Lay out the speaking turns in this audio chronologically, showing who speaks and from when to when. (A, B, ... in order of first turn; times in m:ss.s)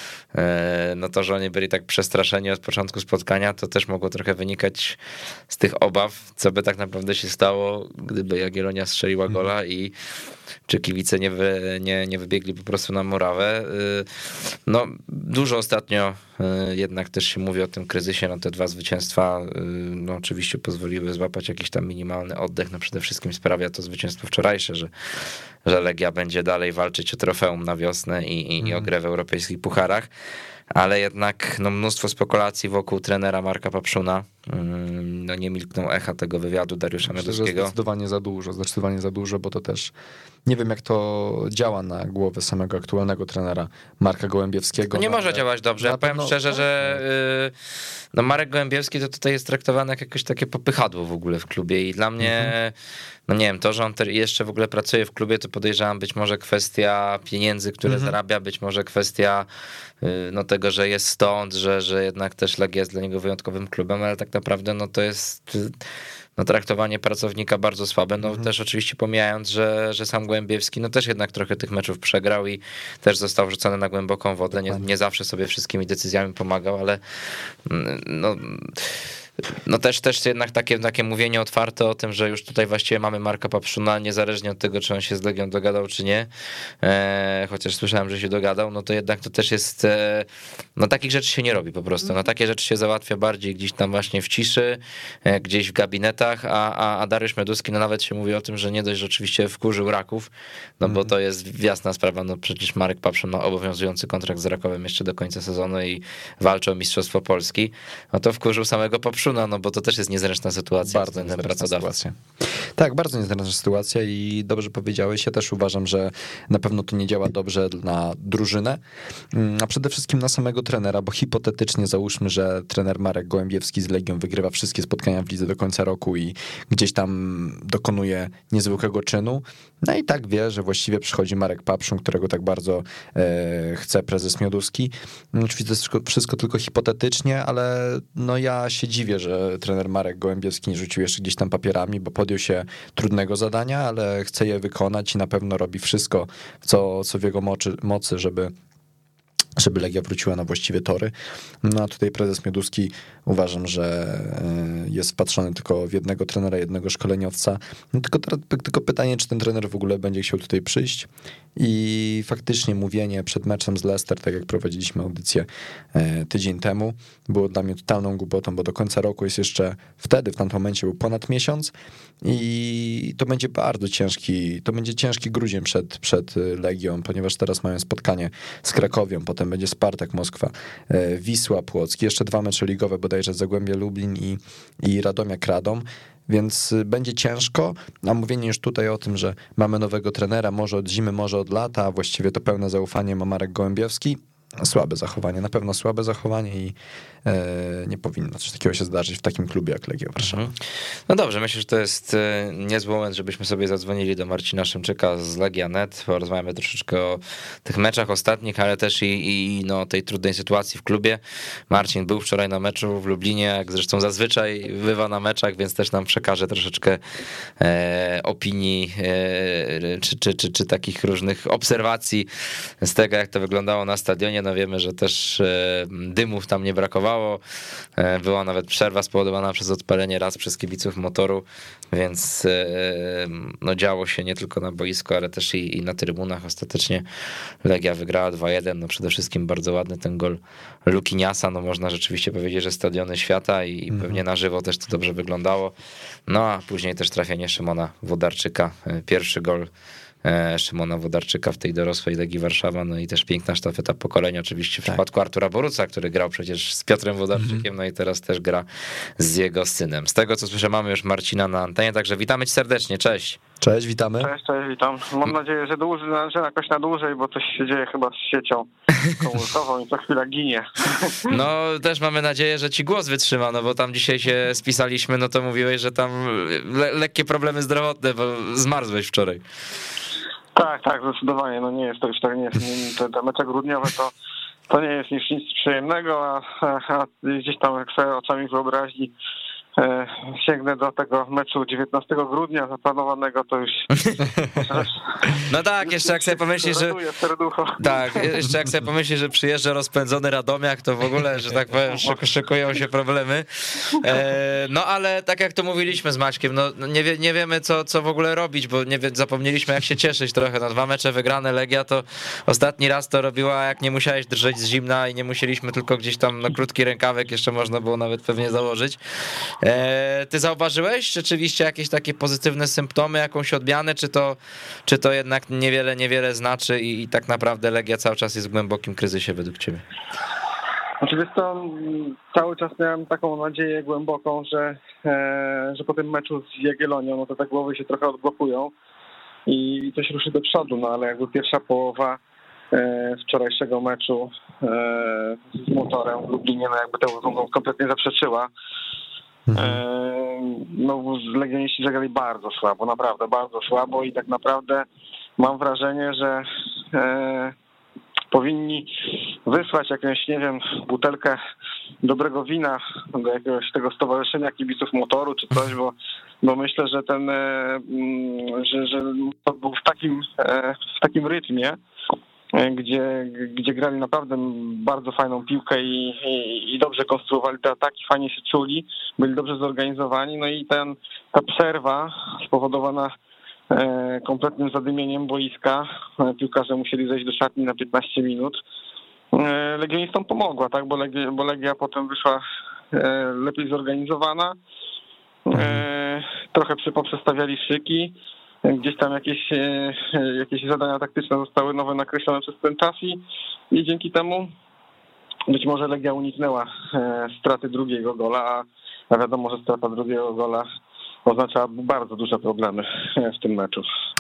0:00.3-0:09.9 A
0:10.7-0:30.1 A
0:28.6-0:28.9 B
0:30.8-0:37.7 A
0:37.1-0:39.9 B
0:40.5-0:47.0 B
0:44.9-0:47.5 A
0:48.1-0:52.8 A
0:52.2-0:52.5 B
0:53.3-0:59.5 A
0:57.9-0:58.2 B
1:00.0-1:05.8 A
1:06.4-1:17.0 A
1:14.5-1:14.9 B
1:17.6-1:18.9 A
1:19.6-1:26.3 A
1:26.8-1:51.9 A
1:40.8-1:41.1 B
1:50.8-1:58.8 B
1:59.3-2:28.5 B
2:29.6-3:20.5 B
3:20.2-3:20.5 A
3:21.1-3:37.0 A
3:37.6-3:42.3 A
3:42.8-3:47.4 A
3:48.0-3:57.0 A
3:57.6-4:05.8 A
4:03.9-4:04.2 B
4:06.3-4:09.7 A
4:10.2-4:18.7 A
4:17.4-4:17.6 B
4:19.2-4:23.4 A
4:23.6-4:24.3 B
4:24.2-4:31.3 C
4:31.3-4:39.4 A
4:40.6-4:44.1 C
4:44.7-4:49.1 C
4:49.8-4:53.9 C
4:54.0-4:54.3 A
4:54.6-4:58.3 C
4:55.4-4:57.0 A
4:57.8-5:29.8 A
5:31.0-5:38.7 C
5:39.5-5:42.2 C
5:42.7-5:48.5 C
5:49.5-5:49.8 B
5:49.6-5:54.8 C
5:55.4-5:57.5 C
5:58.3-5:58.9 C
5:59.4-6:01.4 C
6:02.0-6:11.8 C
6:12.5-6:23.1 C
6:23.7-6:28.6 C
6:29.3-6:34.6 C
6:35.5-6:44.5 C
6:35.5-6:35.8 B
6:45.5-6:50.6 C
6:51.3-6:53.9 C